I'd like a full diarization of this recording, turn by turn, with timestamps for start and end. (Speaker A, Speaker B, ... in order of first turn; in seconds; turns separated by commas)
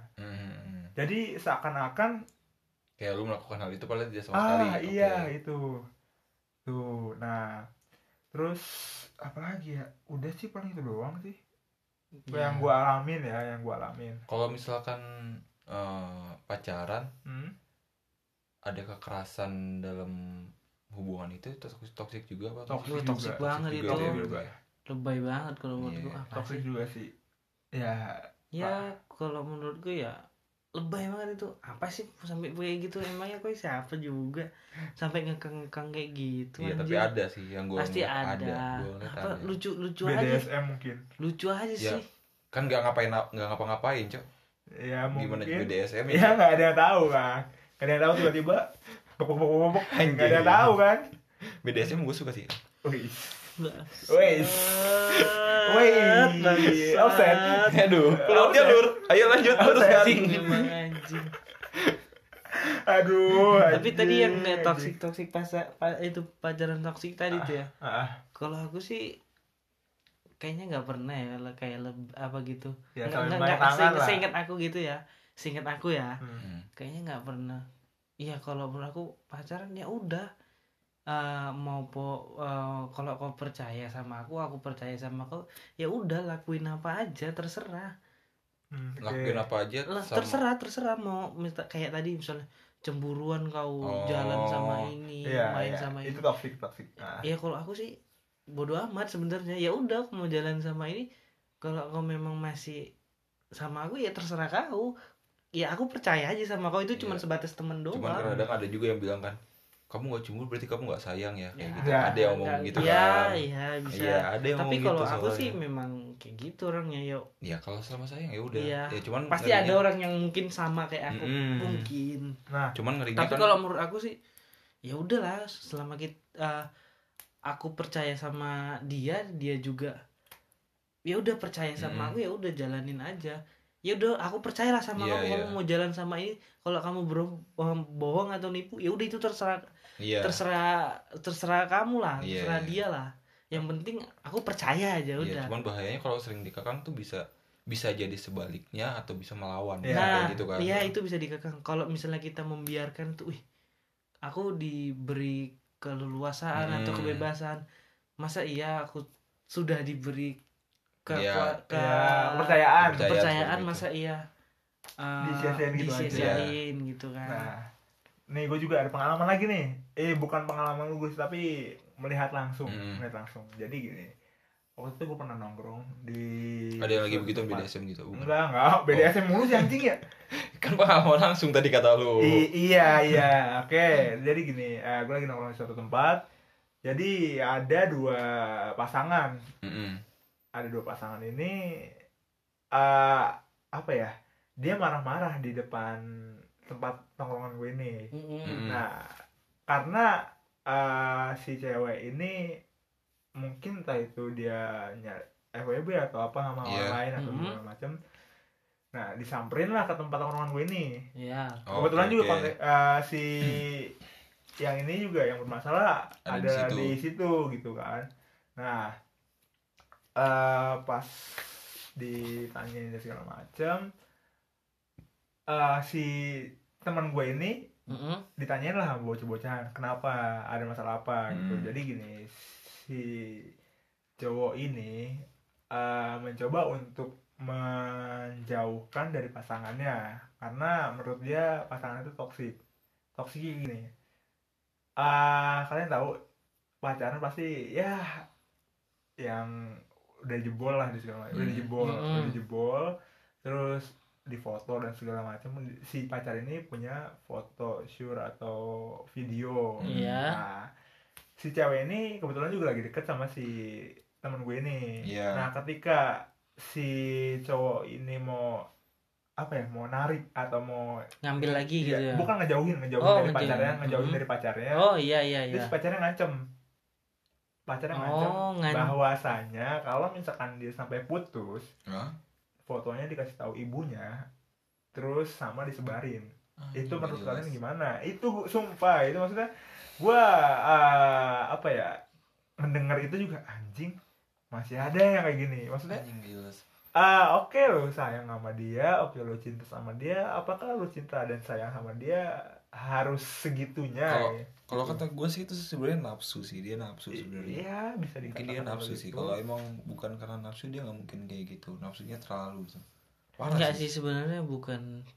Speaker A: 0.2-0.9, Speaker B: 1.0-2.1, Speaker A: 3.0-5.3, Speaker B: 4.3-5.7, Speaker B: 6.7-7.6, Speaker B: 8.3-11.4, Speaker C: 12.3-12.7, Speaker B: 12.3-14.2, Speaker A: 14.3-15.0, Speaker A: 15.7-17.1, Speaker B: 17.2-17.5, Speaker A: 18.7-20.1, Speaker A: 20.9-24.5, Speaker B: 22.7-24.5, Speaker C: 22.9-24.1, Speaker C: 24.9-26.6, Speaker A: 25.8-26.2, Speaker B: 26.3-27.1, Speaker B: 27.7-28.8, Speaker C: 28.5-30.2, Speaker C: 30.8-37.1, Speaker A: 36.6-39.5, Speaker C: 37.8-40.4, Speaker B: 40.0-41.0, Speaker C: 41.2-42.0, Speaker A: 42.5-44.2, Speaker B: 44.7-51.0, Speaker A: 45.1-46.4, Speaker A: 49.9-50.8, Speaker A: 51.6-52.6, Speaker B: 52.8-53.5, Speaker C: 53.6-57.8, Speaker B: 54.1-59.0, Speaker A: 57.6-60.7, Speaker C: 59.3-61.3, Speaker B: 59.6-60.4, Speaker B: 62.5-64.9, Speaker C: 63.7-67.7, Speaker B: 67.4-68.2, Speaker C: 68.3-69.1, Speaker C: 70.4-76.2, Speaker B: 73.0-74.2, Speaker A: 76.4-76.7, Speaker C: 76.8-77.6, Speaker C: 78.2-80.3, Speaker C: 81.1-87.9, Speaker B: 88.7-89.4, Speaker A: 89.0-90.4, Speaker C: 89.9-96.2, Speaker A: 93.8-94.9, Speaker B: 95.3-97.2, Speaker C: 97.2-97.9, Speaker C: 98.5-101.1, Speaker C: 101.6-102.9, Speaker C: 103.6-104.9, Speaker C: 105.5-108.3, Speaker A: 106.9-107.2, Speaker A: 107.9-109.4, Speaker B: 108.2-108.5, Speaker A: 109.9-115.5, Speaker C: 111.6-117.2, Speaker B: 111.8-112.2, Speaker A: 117.4-119.8, Speaker C: 118.5-122.4, Speaker A: 121.1-121.9, Speaker B: 122.5-122.7, Speaker A: 122.7-123.5, Speaker C: 123.2-124.2, Speaker C: 124.8-126.7, Speaker C: 127.5-129.9, Speaker C: 131.1-139.6, Speaker A: 131.8-132.2, Speaker A: 134.9-135.6, Speaker A: 140.0-140.4, Speaker C: 140.2-145.5, Speaker A: 142.2-142.8, Speaker A: 145.2-150.9, Speaker B: 149.8-150.3, Speaker C: 149.9-153.4, Speaker C: 154.2-157.6, Speaker A: 156.6-157.3, Speaker C: 158.2-160.4, Speaker C: 161.1-164.2, Speaker A: 161.1-161.6, Speaker B: 161.7-163.1, Speaker A: 162.8-163.8, Speaker C: 165.0-167.5, Speaker B: 165.2-166.4, Speaker A: 166.1-166.5, Speaker B: 167.2-167.7, Speaker B: 168.3-174.1, Speaker A: 172.7-173.0, Speaker B: 174.8-180.0, Speaker A: 176.8-178.3, Speaker A: 178.9-179.7, Speaker A: 180.6-183.3, Speaker B: 182.2-186.2, Speaker B: 186.8-189.3, Speaker A: 189.6-190.0, Speaker B: 190.5-191.6, Speaker B: 192.7-196.0, Speaker B: 196.7-198.1, Speaker C: 198.1-198.6, Speaker A: 198.4-198.8, Speaker B: 198.6-199.0, Speaker B: 199.7-200.2, Speaker B: 200.7-202.4, Speaker B: 203.4-207.9, Speaker A: 206.6-207.0, Speaker C: 207.2-207.6, Speaker B: 208.9-211.0, Speaker C: 211.2-211.6, Speaker A: 211.7-212.5, Speaker B: 211.7-213.9, Speaker B: 214.6-218.9, Speaker A: 216.3-216.9, Speaker B: 220.2-223.9, Speaker B: 225.5-227.8, Speaker C: 227.9-228.2, Speaker B: 228.4-233.4, Speaker A: 231.3-231.7, Speaker B: 234.2-235.2, Speaker B: 235.7-242.6, Speaker B: 243.2-243.9, Speaker B: 245.0-246.1, Speaker B: 246.8-248.1, Speaker B: 249.2-249.5, Speaker B: 250.2-260.7, Speaker A: 251.3-251.7, Speaker C: 251.8-252.4, Speaker A: 259.8-260.2, Speaker C: 259.9-260.4, Speaker B: 261.4-268.6, Speaker A: 265.0-265.5, Speaker B: 269.4-274.8, Speaker C: 271.2-272.3, Speaker C: 273.0-274.2, Speaker A: 273.4-273.8, Speaker C: 274.7-275.7, Speaker B: 275.5-276.4, Speaker B: 277.7-281.7, Speaker C: 277.9-278.9, Speaker A: 281.9-282.1, Speaker B: 282.7-284.2, Speaker B: 284.9-289.5, Speaker A: 286.6-287.5, Speaker B: 290.0-292.0, Speaker B: 292.6-293.9, Speaker B: 294.5-296.0, Speaker A: 295.9-296.6, Speaker B: 296.9-302.2, Speaker B: 302.7-305.0, Speaker A: 304.1-307.6, Speaker B: 307.2-309.3, Speaker A: 308.2-312.8, Speaker A: 313.4-313.8, Speaker C: 313.5-314.9